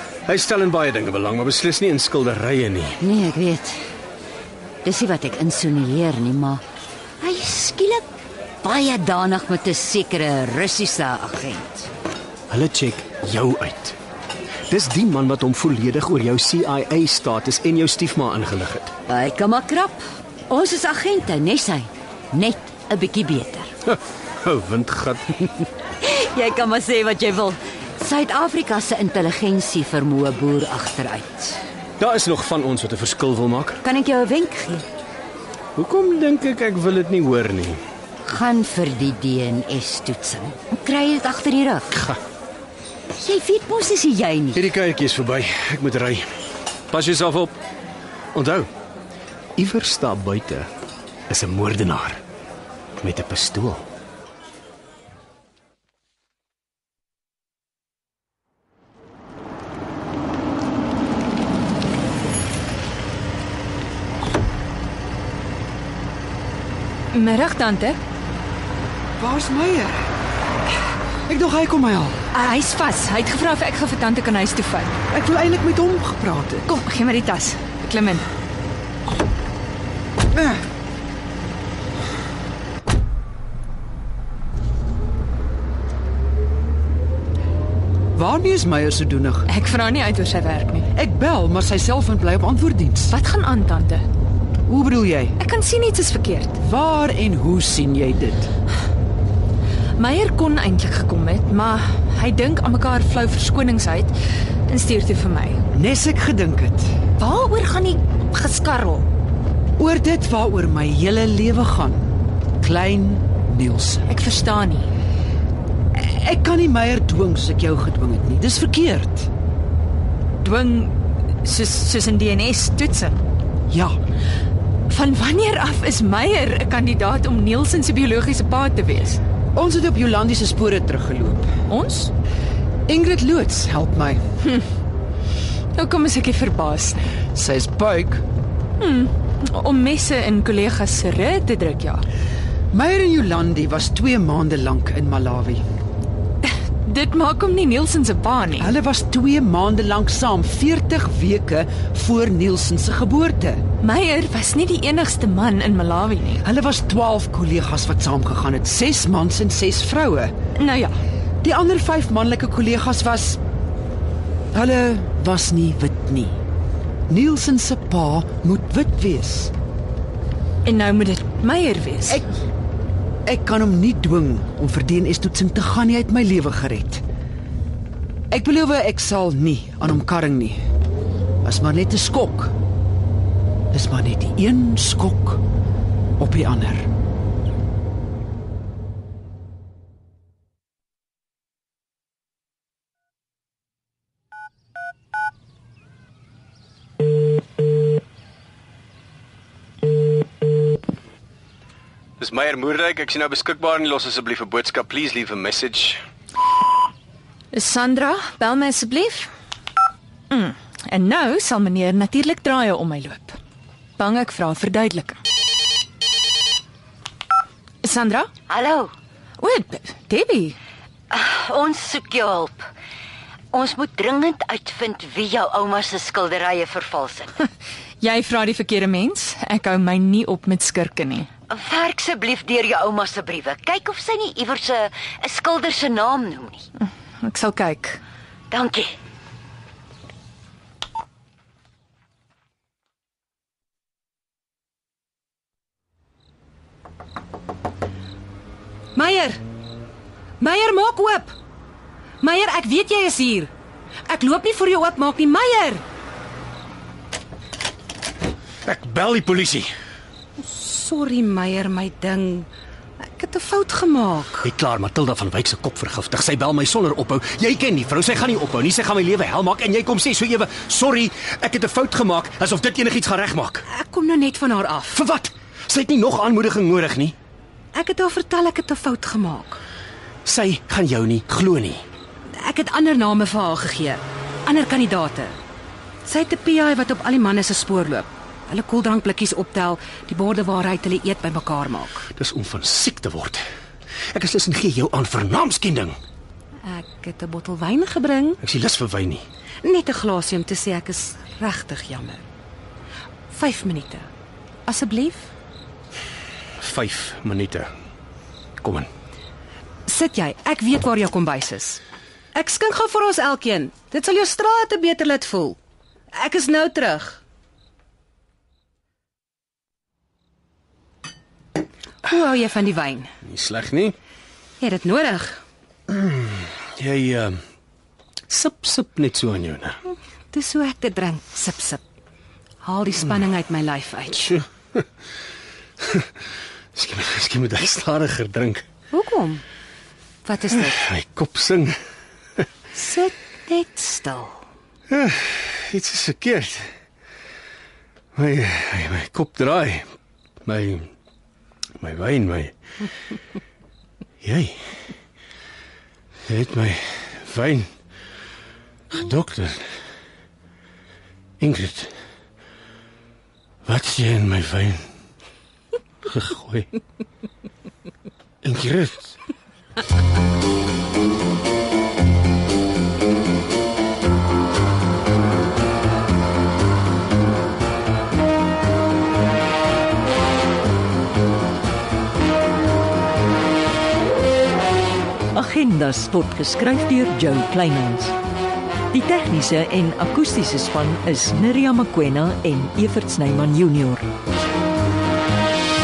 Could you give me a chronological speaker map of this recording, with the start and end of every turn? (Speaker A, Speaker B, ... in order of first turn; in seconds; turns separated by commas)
Speaker A: 0.3-3.0, Speaker B: 3.0-3.8, Speaker B: 4.8-6.6, Speaker B: 7.2-8.1, Speaker B: 8.6-11.9, Speaker A: 12.5-14.0, Speaker A: 14.7-18.9, Speaker B: 19.1-23.7, Speaker A: 23.9-25.3, Speaker B: 26.0-31.6, Speaker A: 32.0-33.8, Speaker B: 33.8-34.9, Speaker A: 35.8-37.8, Speaker B: 38.2-41.9, Speaker A: 41.9-42.2, Speaker B: 43.2-44.6, Speaker A: 44.5-46.3, Speaker A: 46.9-47.6, Speaker A: 48.3-48.7, Speaker A: 49.6-50.7, Speaker A: 51.3-52.2, Speaker A: 53.0-53.9, Speaker C: 67.1-68.0, Speaker D: 69.2-70.0, Speaker D: 71.3-72.2, Speaker C: 72.3-74.9, Speaker D: 75.1-76.7, Speaker C: 76.7-78.3, Speaker D: 80.3-80.6, Speaker D: 88.2-89.5, Speaker C: 89.5-90.9, Speaker D: 90.9-93.1, Speaker C: 93.1-94.0, Speaker D: 94.7-95.4, Speaker C: 95.4-96.6, Speaker D: 96.6-98.5, Speaker C: 100.0-104.1, Speaker C: 104.7-105.6, Speaker D: 105.7-106.9, Speaker C: 107.2-109.0, Speaker D: 109.8-112.1, Speaker D: 112.6-114.1, Speaker C: 114.1-114.9, Speaker D: 115.9-119.3, Speaker C: 120.4-123.2, Speaker D: 123.7-124.0, Speaker C: 124.9-129.2, Speaker D: 129.6-131.5, Speaker C: 131.7-132.1, Speaker D: 132.9-134.2, Speaker C: 135.8-137.0, Speaker D: 137.3-138.2, Speaker C: 138.8-142.1, Speaker D: 142.7-145.6, Speaker C: 146.4-148.7, Speaker D: 148.6-153.6, Speaker C: 153.8-156.4, Speaker D: 156.4-160.3, Speaker C: 160.6-161.0, Speaker D: 161.4-163.4, Speaker D: 164.5-166.4, Speaker D: 167.1-169.5, Speaker C: 170.7-172.0, Speaker D: 173.3-177.0, Speaker D: 178.3-180.6, Speaker D: 181.4-182.5, Speaker D: 183.7-185.4, Speaker D: 186.2-186.9, Speaker A: 202.2-206.0, Speaker C: 207.5-209.3, Speaker C: 210.3-213.4, Speaker C: 214.0-215.2, Speaker C: 217.8-218.3, Speaker B: 218.5-218.9, Speaker C: 219.4-220.6, Speaker B: 221.1-222.7, Speaker B: 223.5-227.4, Speaker C: 228.0-231.3, Speaker B: 231.5-236.7, Speaker C: 237.2-238.0, Speaker B: 238.5-238.9, Speaker E: 248.9-249.4, Speaker E: 250.4-251.3, Speaker E: 252.2-253.5, Speaker E: 254.1-255.8, Speaker A: 258.6-259.7, Speaker E: 260.4-262.5, Speaker E: 263.0-264.5, Speaker A: 264.4-273.7, Speaker E: 273.7-275.0, Speaker A: 274.9-277.2, Speaker E: 277.7-279.6, Speaker A: 280.2-281.8, Speaker E: 282.3-285.4, Speaker E: 286.1-292.1, Speaker A: 292.1-293.4, Speaker A: 294.1-296.0, Speaker E: 296.6-298.4, Speaker A: 298.4-299.3, Speaker E: 299.6-302.2, Speaker E: 303.3-304.1, Speaker E: 304.7-305.3, Speaker A: 306.6-307.7, Speaker A: 308.6-308.9, Speaker E: 309.9-311.8, Speaker E: 312.3-315.6, Speaker E: 316.1-317.2, Speaker E: 322.0-323.1, Speaker A: 323.2-324.0, Speaker E: 324.6-325.4, Speaker A: 325.9-327.4, Speaker A: 328.3-329.8, Speaker E: 330.3-331.8, Speaker E: 332.6-334.4, Speaker A: 335.8-336.1, Speaker A: 336.7-338.6, Speaker E: 338.9-339.4, Speaker E: 340.2-340.8, Speaker A: 340.5-341.8, Speaker E: 342.8-344.4, Speaker A: 344.9-346.7, Speaker A: 348.2-349.9, Speaker A: 350.4-350.9, Speaker A: 351.8-352.5, Speaker A: 354.2-354.6, Speaker A: 356.3-357.7, Speaker A: 358.9-359.7, Speaker A: 361.4-361.9, Speaker A: 363.7-364.8, Speaker A: 366.1-366.7, Speaker A: 368.4-369.1, Speaker F: 385.3-388.2, Speaker F: 388.9-394.1